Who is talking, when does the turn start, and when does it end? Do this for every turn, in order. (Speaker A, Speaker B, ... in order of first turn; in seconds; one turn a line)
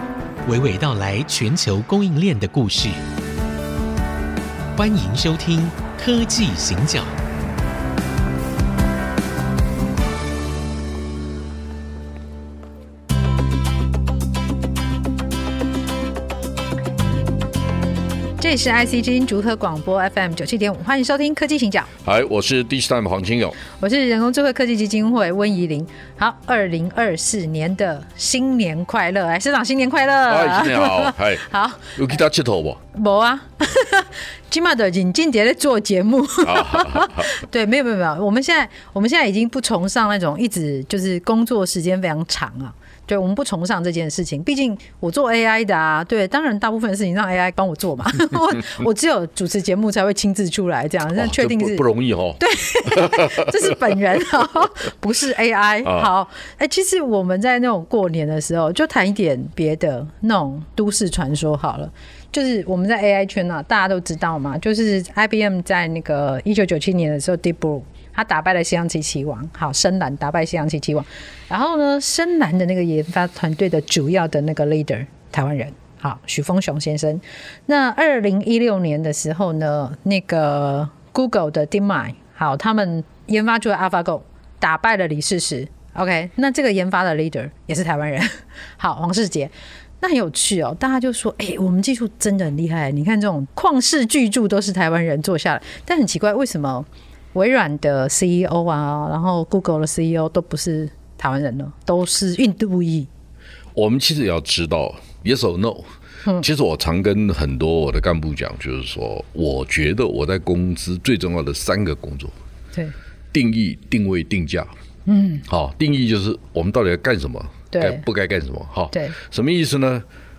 Speaker A: 0.4-3.0
Speaker A: 4.7-7.1
Speaker B: 18.4-21.9
Speaker C: 22.0-23.6
Speaker B: 23.8-32.0
Speaker C: 30.3-32.8
Speaker B: 32.9-51.8
Speaker C: 36.4-37.3
Speaker C: 51.1-54.5
Speaker B: 52.4-103.1
Speaker C: 55.8-56.1
Speaker C: 103.7-105.8
Speaker C: 106.4-112.3
Speaker C: 113.3-114.7
Speaker B: 115.1-115.4
Speaker C: 115.5-120.0
Speaker B: 117.7-118.0